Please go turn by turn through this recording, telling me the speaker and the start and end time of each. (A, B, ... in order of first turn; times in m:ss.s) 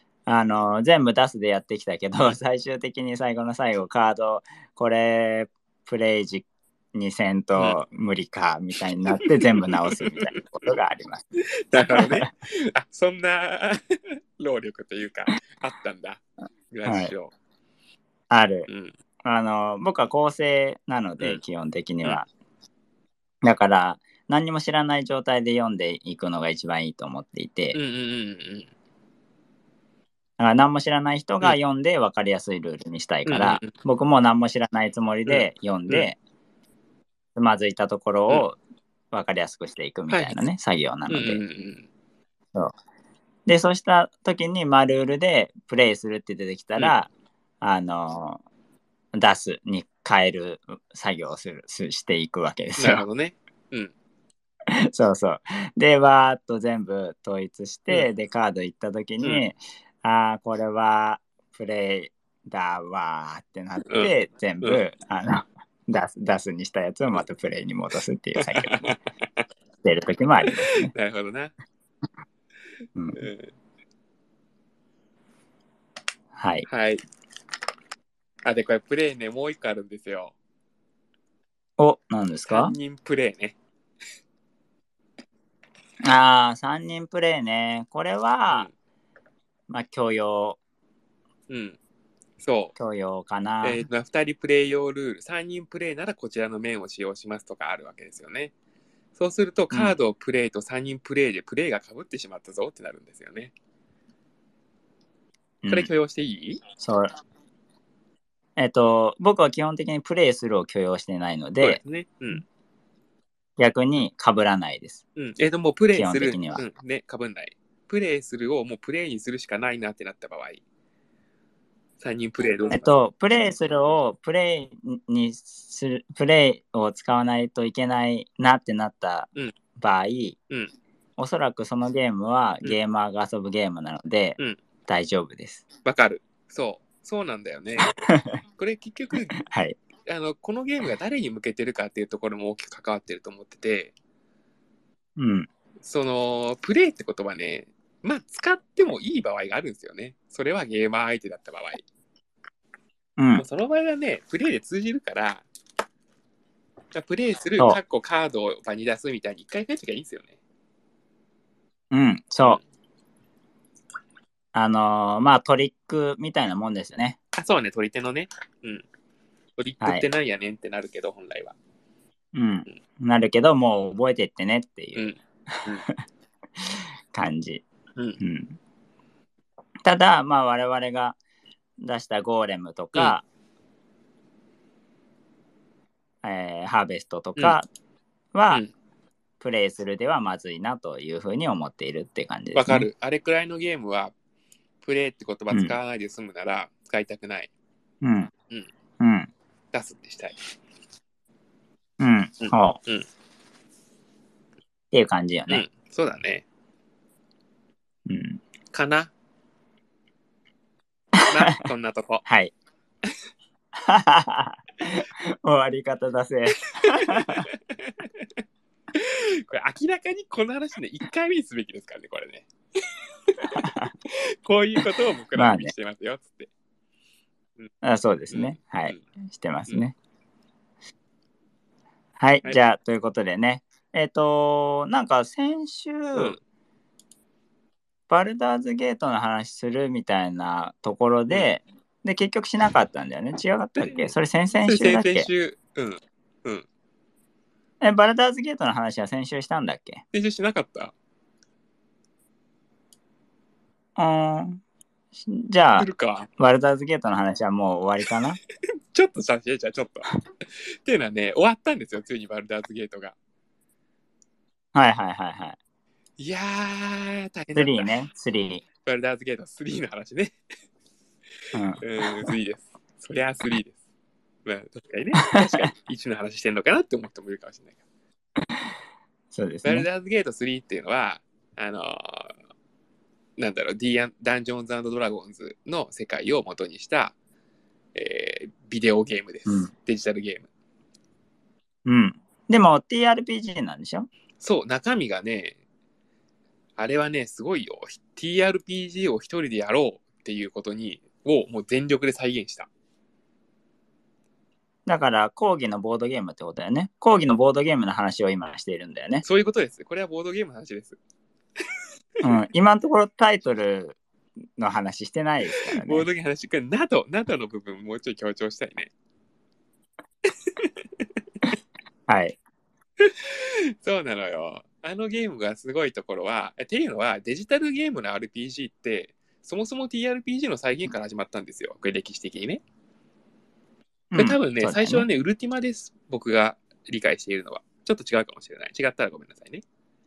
0:00.2-0:11.2 A
0:09.1-0:10.3 B
0:11.6-0:13.8 B
0:11.9-0:12.3 A
0:14.4-0:17.3 B
0:16.8-0:17.1 A
0:18.3-0:18.7 A
0:18.7-0:18.9 B
0:19.2-0:22.2 A
0:23.4-0:27.8 A
0:27.7-0:28.7 B
0:30.4-0:36.2 A
0:33.2-0:33.7 B
0:35.3-0:36.1 B
0:37.4-0:38.6 A
0:39.1-0:41.4 A
0:40.1-0:40.4 B
0:41.1-0:41.9 B
0:43.4-0:47.1 A
0:47.6-0:48.4 A
0:49.1-0:53.0 A
0:52.8-0:53.9 B
0:54.7-1:08.9 A
1:03.9-1:04.8 B
1:08.4-1:09.4 B
1:09.8-1:10.9 A
1:10.4-1:11.5 B
1:13.1-1:13.5 B
1:16.3-1:16.6 A
1:16.6-1:17.0 B
1:18.4-1:20.3 B
1:21.8-1:22.7 A
1:22.5-1:23.5 B
1:26.0-1:28.7 A
1:29.7-1:30.6 A
1:31.5-1:31.8 B
1:32.4-1:32.7 B
1:32.8-1:33.8 A
1:33.6-1:38.5 B
1:39.2-1:43.5 B
1:45.6-1:45.9 A
1:45.7-1:46.6 B
1:46.8-1:47.1 A
1:48.6-1:51.8 A
1:51.6-1:52.4 B
1:53.6-1:55.0 A
1:55.2-2:00.6 B
1:55.9-1:56.6 A
2:02.0-2:02.9 B
2:02.7-2:10.4 A
2:11.2-2:15.6 A
2:15.8-2:17.9 B
2:17.8-2:18.4 A
2:18.6-2:19.3 B
2:19.4-2:19.8 A
2:20.0-2:23.9 B
2:25.2-2:25.5 A
2:25.8-2:31.8 B
2:33.2-2:33.4 A
2:33.4-2:35.4 B
2:36.9-2:40.4 B
2:41.9-2:42.6 A
2:44.5-2:47.2 A
2:47.3-2:48.8 B
2:49.6-2:51.5 B
2:52.3-2:55.9 A
2:54.9-2:55.8 B
2:56.6-2:57.6 A
2:58.2-2:58.6 A
2:59.8-3:01.2 A
3:01.8-3:03.2 A
3:06.2-3:07.6 A
3:08.3-3:08.6 A
3:09.4-3:12.8 A
3:12.5-3:14.1 B
3:14.8-3:17.5 B
3:18.0-3:18.3 A
3:19.0-3:19.3 A
3:19.7-3:20.4 B
3:22.0-3:22.8 A
3:22.4-3:23.0 B
3:24.9-3:25.6 A
3:25.5-3:26.4 B
3:28.0-3:28.4 A
3:28.7-3:29.1 B
3:31.2-3:32.2 B
3:32.2-3:32.5 A
3:33.8-3:37.4 A
3:36.7-3:38.0 B
3:38.9-3:42.5 B
3:43.3-3:46.5 B
3:43.6-3:43.9 A
3:45.3-3:45.7 A
3:47.8-3:49.9 A
3:48.3-3:49.0 B
3:52.2-3:56.4 A
3:56.1-3:56.4 B
3:58.1-4:05.3 A
4:03.8-4:04.1 B
4:04.6-4:06.6 B
4:07.8-4:10.0 A
4:10.1-4:10.9 B
4:14.0-4:14.6 A
4:15.2-4:18.4 A
4:15.8-4:16.3 B
4:18.9-4:20.1 B
4:20.8-4:23.2 B
4:24.7-4:25.6 A
4:26.2-4:27.9 B
4:27.5-4:28.6 A
4:28.8-4:30.4 B
4:31.5-4:32.3 A
4:31.8-4:33.8 B
4:34.4-4:37.7 B
4:39.3-4:39.9 A
4:39.6-4:42.3 B
4:43.4-4:47.1 B
4:47.9-4:50.5 B
4:51.8-4:54.1 A
4:54.4-4:55.6 B
4:56.8-5:02.7 B
5:04.8-5:09.2 A
5:09.2-5:11.0 B
5:12.2-5:14.0 A
5:14.6-5:16.0 A
5:15.5-5:18.9 B
5:20.3-5:20.7 B
5:22.1-5:22.4 A
5:23.0-5:32.6 B
5:34.1-5:35.0 A
5:34.2-5:39.6 B